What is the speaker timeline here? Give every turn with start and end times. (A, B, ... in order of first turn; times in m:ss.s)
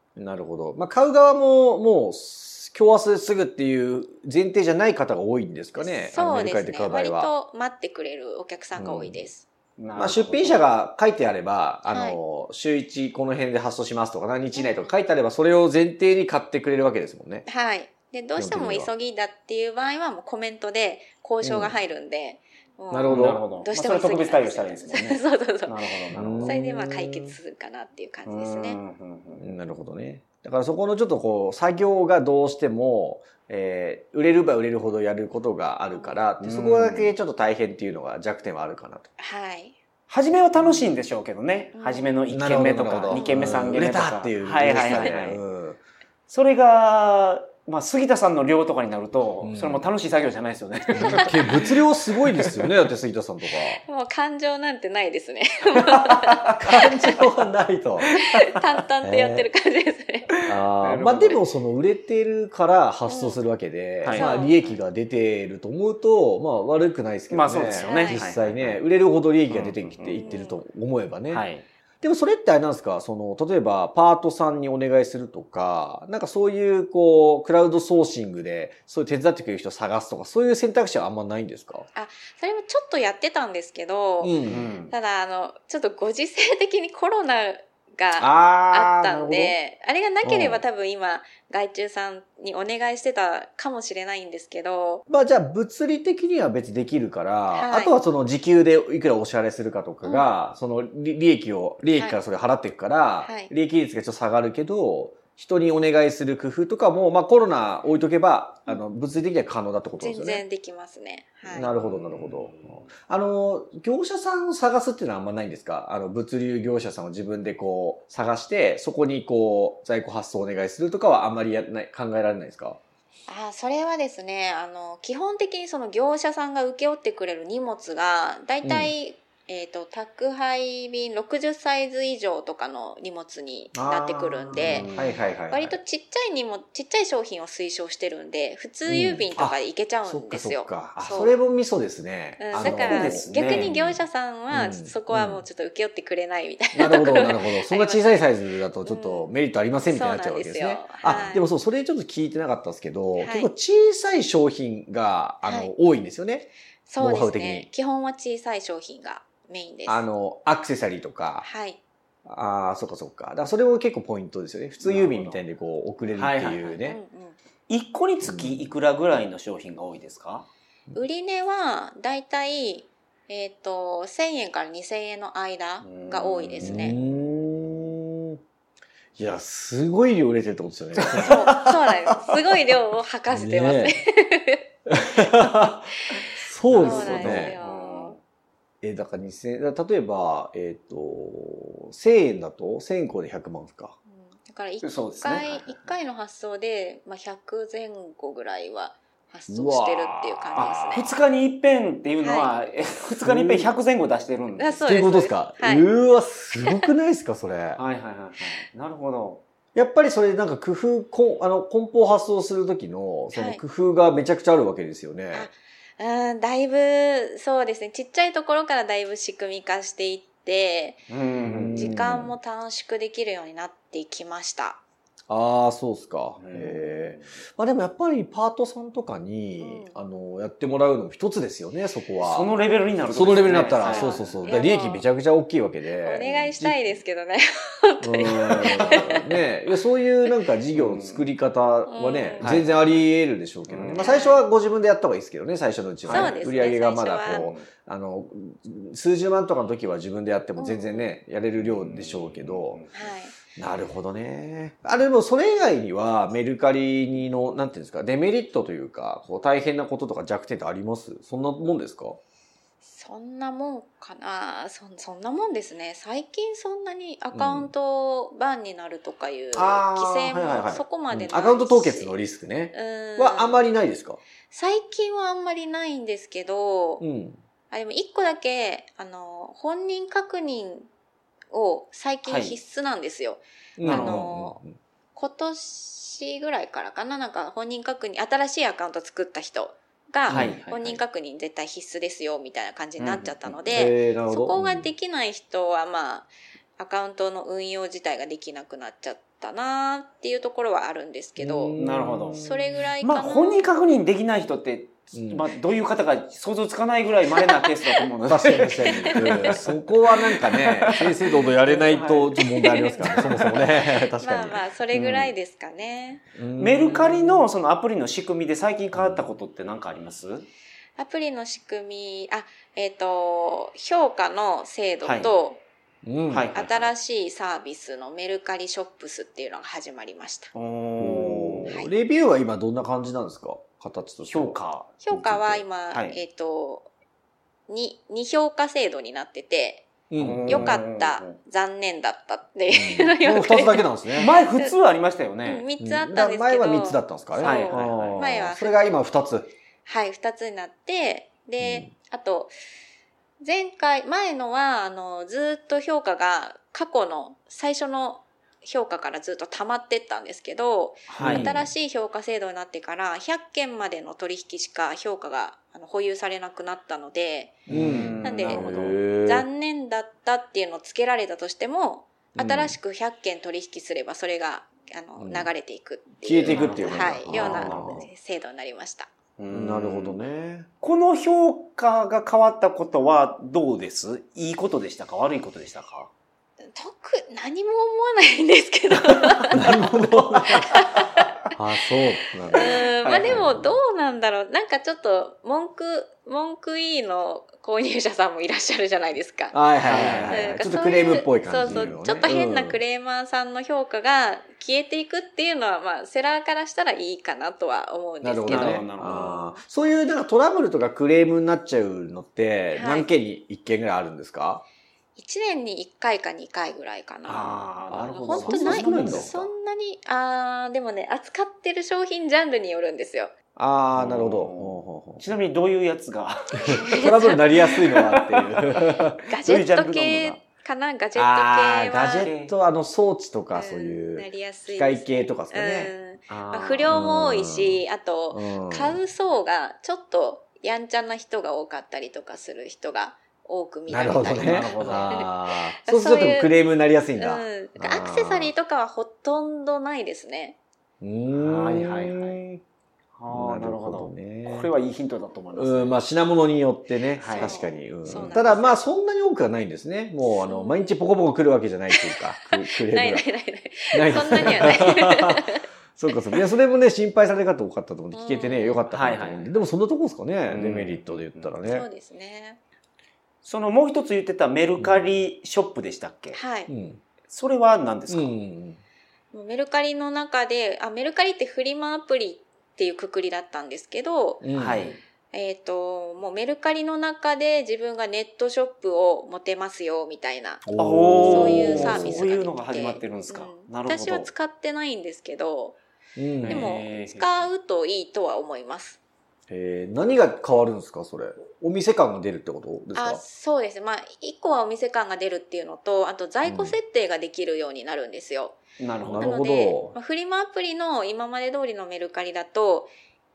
0:00.2-0:07.3 A
0:05.8-0:09.4 B
0:08.8-0:09.2 A
0:09.8-0:10.6 C
0:10.0-0:17.4 A
0:11.9-0:12.2 B
0:14.5-0:14.9 B
0:17.4-0:28.8 B
0:18.4-0:18.9 A
0:21.4-0:21.8 A
0:22.9-0:23.4 A
0:23.1-0:26.6 C
0:26.1-0:27.4 A
0:28.2-0:29.5 C
0:29.4-0:39.1 A
0:36.4-0:37.1 C
0:39.2-0:39.8 B
0:40.1-0:45.4 C
0:40.6-0:40.8 A
0:41.7-0:42.1 B
0:42.3-0:45.8 A
0:43.1-0:43.8 B
0:44.8-0:45.1 B
0:46.3-0:51.8 C
0:49.4-0:49.9 A
0:50.9-0:53.8 A
0:52.3-0:52.6 C
0:53.7-0:57.2 B
0:55.8-0:58.2 A
0:58.2-1:00.3 B
0:59.0-0:59.5 A
1:00.4-1:11.4 A
1:00.4-1:01.4 C
1:03.1-1:03.4 B
1:04.0-1:04.4 C
1:04.1-1:04.7 B
1:07.3-1:08.8 C
1:07.8-1:08.2 B
1:09.5-1:10.3 C
1:10.2-1:10.6 B
1:11.3-1:11.6 C
1:12.0-1:21.9 A
1:21.9-1:35.0 B
1:24.2-1:24.7 A
1:24.5-1:24.9 C
1:28.2-1:29.5 A
1:30.2-1:30.6 A
1:35.1-1:50.4 A
1:37.5-1:38.0 B
1:40.0-1:40.3 B
1:43.2-1:43.5 B
1:50.0-1:51.7 B
1:51.5-2:02.8 A
1:51.8-1:52.8 C
2:03.3-2:14.9 B
2:08.6-2:08.9 A
2:13.7-2:15.8 A
2:14.5-2:15.3 C
2:15.5-2:21.4 B
2:18.9-2:24.0 A
2:22.4-2:28.2 B
2:22.6-2:23.7 C
2:24.5-2:25.4 A
2:26.7-2:37.7 A
2:28.8-2:29.3 B
2:29.9-2:31.4 B
2:33.2-2:33.5 B
2:35.4-2:35.7 B
2:36.8-2:40.0 B
2:39.8-2:41.4 A
2:41.4-2:41.8 B
2:42.2-2:47.0 A
2:44.8-2:45.4 C
2:46.2-2:46.8 C
2:46.8-2:47.4 B
2:47.7-2:50.5 C
2:48.2-2:48.7 A
2:50.9-2:57.0 B
2:55.8-2:57.1 C
2:56.6-2:58.4 A
2:59.2-3:02.7 A
3:01.0-3:01.3 C
3:01.2-3:04.6 B
3:03.3-3:03.9 A
3:04.9-3:07.6 A
3:05.2-3:05.6 B
3:06.7-3:08.2 C
3:06.8-3:08.2 B
3:08.8-3:14.0 A
3:14.1-3:21.1 B
3:14.8-3:15.9 C
3:19.5-3:21.0 A
3:20.6-3:24.8 C
3:22.2-3:22.5 B
3:23.2-3:23.7 A
3:24.6-3:25.9 B
3:24.8-3:27.8 A
3:27.8-3:29.4 C
3:29.7-3:35.5 A
3:33.3-3:33.6 B
3:35.3-3:41.1 B
3:41.1-3:42.0 C
3:41.4-3:42.3 A
3:41.7-3:44.8 B
3:45.3-3:52.5 A
3:46.4-3:47.3 C
3:49.6-3:49.9 B
3:52.2-3:54.4 C
3:53.1-3:57.0 A
3:53.8-3:55.0 B
3:56.0-3:59.3 B
3:58.0-4:12.8 A
3:58.6-3:59.1 C
4:00.7-4:01.2 C
4:01.9-4:02.5 B
4:02.4-4:03.0 C
4:03.7-4:04.1 C
4:03.9-4:04.4 B
4:06.0-4:06.4 C
4:06.1-4:07.5 B
4:07.3-4:07.7 C
4:10.6-4:11.1 B
4:11.6-4:13.1 C
4:12.9-4:13.3 B
4:13.5-4:22.2 A
4:22.8-4:32.1 B
4:27.3-4:27.7 A
4:29.5-4:30.8 C
4:31.1-4:34.2 A
4:32.7-4:33.6 B
4:34.5-4:37.0 B
4:37.0-4:37.4 A
4:37.7-4:40.9 B
4:41.5-4:44.6 B
4:42.2-4:42.6 C
4:43.8-4:44.8 A
4:43.8-4:44.2 C
4:45.1-5:01.8 B
4:50.3-4:50.6 A
4:50.3-4:51.0 C
4:53.0-4:53.6 C
4:53.6-4:54.9 A
5:01.4-5:02.7 A
5:01.8-5:02.4 C
5:02.3-5:03.7 B
5:03.0-5:09.7 C
5:05.1-5:05.4 A
5:07.4-5:08.0 B
5:08.3-5:14.6 A
5:08.9-5:09.6 B
5:10.3-5:12.4 C
5:12.5-5:13.5 B
5:13.0-5:13.6 C
5:14.2-5:16.2 B
5:14.9-5:15.3 C
5:16.3-5:17.4 A
5:16.6-5:20.5 C
5:18.9-5:19.3 A
5:21.0-5:25.6 B
5:25.0-5:25.3 C
5:26.0-5:26.5 A
5:26.3-5:26.9 C
5:26.5-5:30.5 B
5:30.5-5:31.7 C
5:31.0-5:34.6 A
5:34.3-5:35.0 C
5:35.0-5:36.9 B
5:35.1-5:35.6 A
5:35.9-5:36.2 C
5:37.7-5:39.9 B
5:40.1-5:40.8 A
5:40.2-5:41.4 C
5:40.5-5:43.9 B
5:42.7-5:44.3 A
5:44.1-5:45.6 C
5:45.4-5:49.0 B
5:45.8-5:49.5 A
5:47.4-5:48.3 C
5:49.8-5:52.5 B
5:51.6-5:51.9 A
5:53.4-6:07.6 B
6:01.1-6:01.5 C
6:01.2-6:01.7 A
6:07.7-6:09.0 C
6:07.7-6:09.4 A
6:08.2-6:19.1 B
6:12.3-6:12.8 A
6:15.2-6:15.5 A
6:16.2-6:18.0 A
6:16.4-6:18.0 C
6:19.4-6:20.2 C
6:19.5-6:20.7 A
6:20.8-6:26.1 C
6:26.7-6:29.8 B
6:29.5-6:33.7 A
6:29.5-6:29.8 C
6:30.4-6:31.3 B
6:32.5-6:33.6 C
6:32.5-6:39.6 B
6:39.5-6:42.8 A
6:39.8-6:40.5 C
6:40.2-6:49.6 B
6:41.6-6:42.0 C
6:48.2-6:54.6 A
6:48.5-6:49.3 C
6:52.7-6:53.1 B
6:55.2-7:03.3 B
6:57.2-6:59.5 C
6:57.9-6:59.5 A
7:03.6-7:05.2 A
7:03.9-7:07.1 C
7:06.6-7:08.0 B
7:06.7-7:09.2 A
7:08.1-7:08.5 C
7:09.2-7:12.3 B
7:09.4-7:10.4 C
7:11.1-7:15.9 A
7:12.2-7:12.5 C
7:13.5-7:26.5 B
7:16.3-7:17.0 C
7:16.9-7:19.0 A
7:23.9-7:28.5 A
7:24.3-7:25.1 C
7:27.2-7:30.6 B
7:31.0-7:32.6 A
7:31.3-7:32.4 C
7:33.2-7:36.0 C
7:33.3-7:34.7 A
7:35.5-7:43.2 A
7:37.2-7:37.6 C
7:37.3-7:38.7 B
7:40.2-7:40.9 B
7:41.9-7:46.4 B
7:43.9-7:51.8 A
7:48.1-7:48.8 B
7:48.9-7:49.5 C
7:50.5-7:51.5 C
7:51.6-7:52.6 B
7:53.4-7:56.4 C
7:54.8-7:55.2 A
7:56.3-7:56.7 B
7:56.7-7:57.0 A
7:57.3-7:58.3 C
7:58.1-7:58.8 A
7:59.3-8:04.4 B
8:04.4-8:04.9 A
8:04.5-8:05.0 C
8:05.3-8:10.7 B
8:10.6-8:12.3 A
8:10.8-8:14.3 C
8:11.2-8:15.8 B
8:16.2-8:16.7 A
8:16.4-8:17.3 C
8:16.4-8:19.0 B
8:19.5-8:23.2 A
8:22.9-8:28.6 B
8:26.4-8:26.8 A
8:28.8-8:29.3 C
8:29.0-8:29.9 A
8:29.2-8:32.9 B